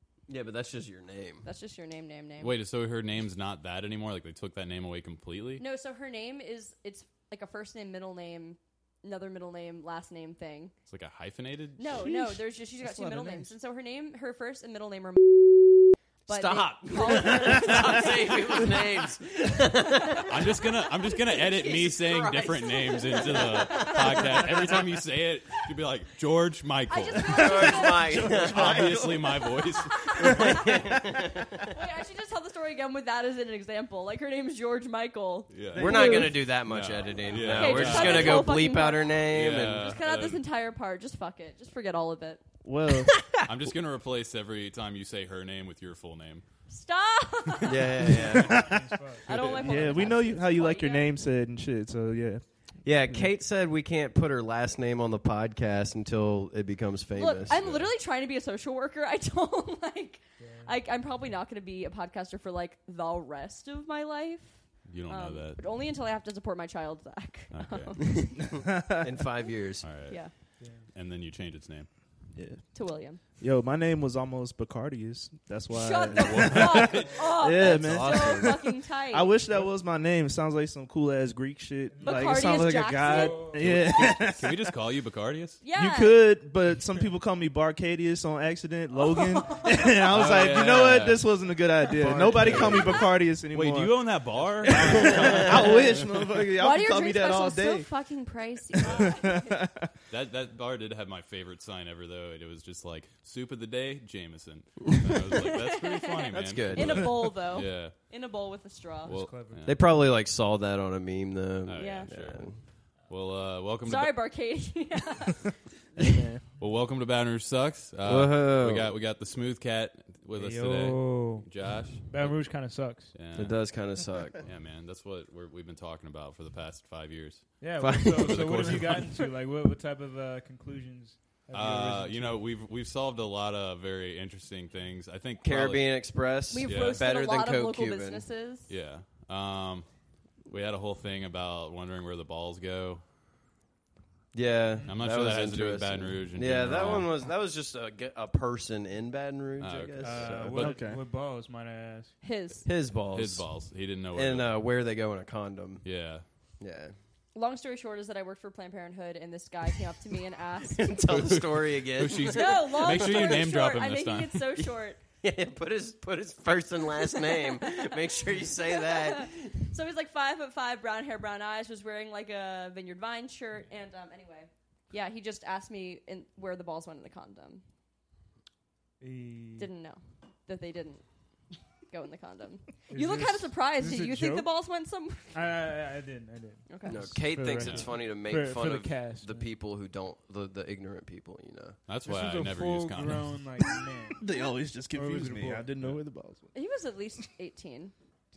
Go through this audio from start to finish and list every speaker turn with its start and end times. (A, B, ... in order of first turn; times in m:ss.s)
0:00.3-0:01.4 A
0:01.4-0:02.6 B
0:02.4-0:05.6 C
0:05.6-0:10.7 B
0:10.9-0:12.1 C
0:11.8-0:19.0 B
0:12.0-0:13.5 D
0:16.3-0:20.6 A
0:20.3-0:30.5 C
0:21.3-0:24.7 A
0:22.6-0:24.8 B
0:26.9-0:28.8 B
0:27.3-0:29.4 D
0:27.3-0:29.0 A
0:29.6-0:31.0 B
0:30.2-0:31.7 A
0:30.2-0:31.0 D
0:31.5-0:36.3 B
0:35.5-0:38.7 C
0:35.7-0:36.4 D
0:35.8-0:39.9 A
0:37.3-0:42.4 B
0:39.2-0:40.4 C
0:42.6-0:43.2 D
0:43.4-0:46.4 C
0:46.7-0:48.3 B
0:47.6-0:48.7 A
0:48.1-0:50.2 E
0:48.2-0:53.3 D
0:49.2-0:51.1 B
0:52.8-0:57.6 A
0:57.1-1:08.4 B
0:57.5-0:57.9 C
1:00.4-1:00.7 E
1:04.8-1:05.6 C
1:07.5-1:08.3 C
1:08.5-1:09.1 D
1:08.5-1:09.9 A
1:09.8-1:11.9 C
1:10.0-1:10.3 B
1:10.6-1:10.9 E
1:12.3-1:12.8 D
1:12.7-1:13.2 B
1:13.4-1:24.6 D
1:15.7-1:19.3 B
1:16.1-1:17.4 C
1:17.6-1:18.6 A
1:21.9-1:23.7 E
1:22.0-1:23.5 B
1:23.6-1:25.6 C
1:25.6-1:26.2 B
1:25.7-1:37.9 D
1:29.4-1:29.9 B
1:30.0-1:31.3 C
1:32.0-1:33.0 A
1:32.2-1:36.1 C
1:35.0-1:35.6 A
1:36.6-1:39.6 B
1:38.8-1:39.9 D
1:38.8-1:39.2 C
1:40.1-1:47.9 C
1:45.3-1:49.1 B
1:46.3-1:47.2 A
1:49.0-1:49.6 E
1:49.0-1:49.8 C
1:49.6-1:52.6 A
1:51.6-1:54.3 C
1:51.8-1:52.1 B
1:53.8-1:56.0 B
1:56.6-2:03.7 C
1:58.0-1:58.9 A
2:00.3-2:03.2 E
2:03.3-2:04.4 A
2:04.3-2:09.2 C
2:07.6-2:12.4 E
2:07.8-2:09.0 A
2:11.5-2:17.0 C
2:15.4-2:18.2 A
2:16.5-2:18.7 B
2:18.7-2:19.9 C
2:20.4-2:23.0 C
2:24.3-2:30.7 A
2:24.8-2:27.1 C
2:29.6-2:30.7 C
2:30.0-2:32.2 E
2:30.3-2:31.0 D
2:32.2-2:32.7 B
2:32.6-2:33.5 A
2:33.1-2:34.6 C
2:34.1-2:35.8 A
2:35.8-2:36.2 C
2:36.6-2:36.9 A
2:37.3-2:41.0 B
2:40.8-2:43.4 A
2:41.1-2:44.7 C
2:42.3-2:45.0 B
2:45.2-2:49.5 A
2:47.0-2:57.6 B
2:59.0-2:59.7 E
2:59.6-3:01.0 B
3:01.9-3:05.4 B
3:02.9-3:04.5 E
3:05.3-3:09.5 E
3:06.7-3:07.0 B
3:06.8-3:11.8 A
3:07.6-3:07.8 C
3:11.9-3:13.3 C
3:12.0-3:14.2 E
3:14.2-3:16.5 D
3:14.9-3:15.7 E
3:16.5-3:17.9 B